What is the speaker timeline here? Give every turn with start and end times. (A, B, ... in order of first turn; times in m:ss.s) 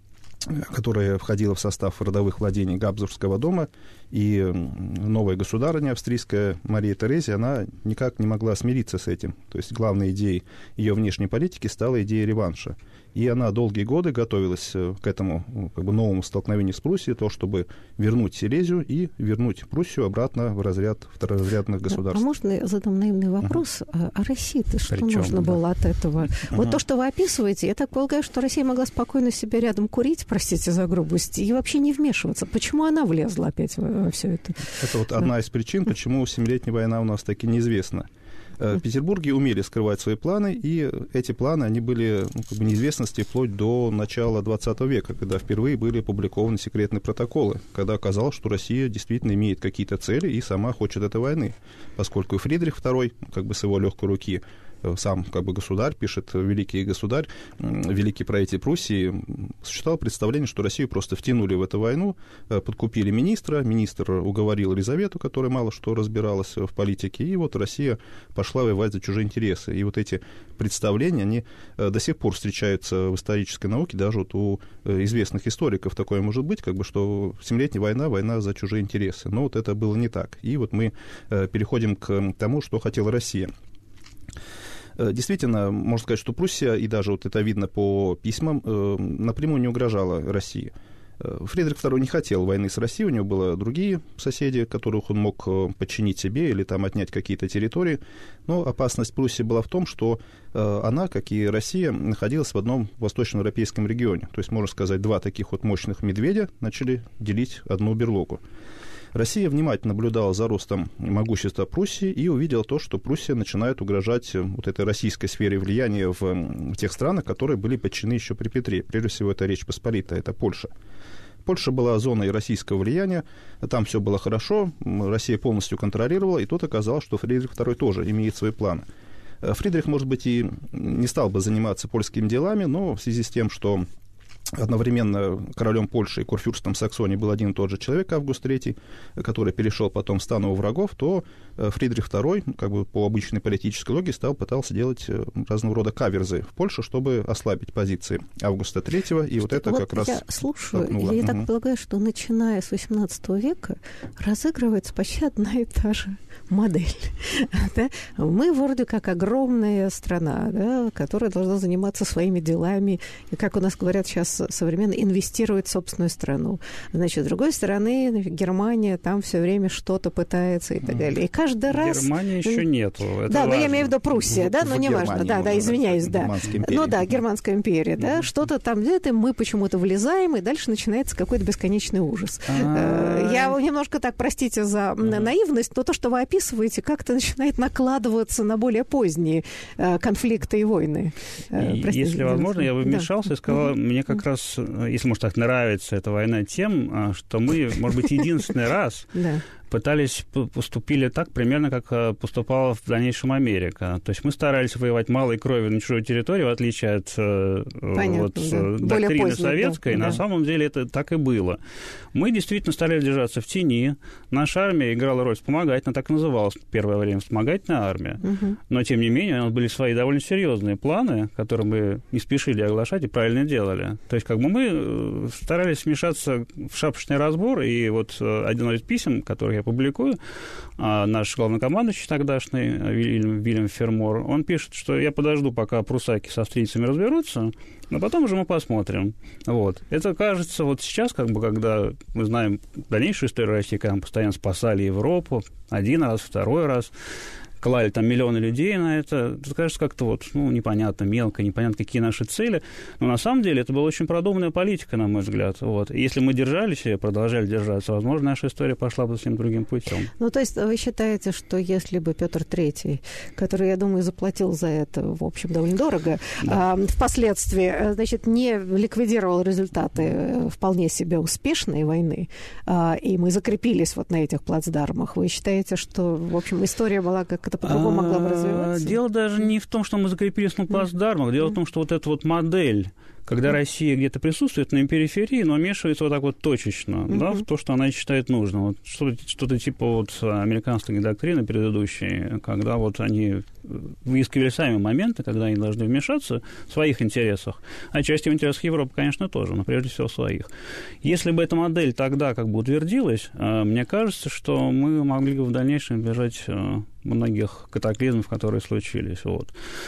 0:00.4-0:22.2 A
0:21.9-0:34.8 B
0:24.9-0:25.6 C
0:26.5-0:26.8 A
0:34.8-0:38.1 A
0:38.6-1:23.5 A
1:25.0-1:48.4 A
1:49.1-2:00.7 A
2:01.4-2:08.8 A
2:09.4-2:13.8 A
2:14.5-2:31.5 A
2:29.5-2:52.6 B
2:51.7-2:54.0 C
2:53.3-3:13.1 B
2:54.2-2:57.0 A
2:58.0-2:58.2 C
3:02.5-3:03.6 C
3:05.0-3:05.3 C
3:11.5-3:19.2 C
3:19.1-3:19.4 B
3:19.7-3:31.6 C
3:27.9-3:30.2 B
3:32.1-3:50.2 C
3:38.2-3:38.6 B
3:50.8-4:06.9 C
4:07.6-4:20.1 C
4:20.2-4:39.0 B
4:37.6-5:00.5 C
5:01.0-5:09.5 C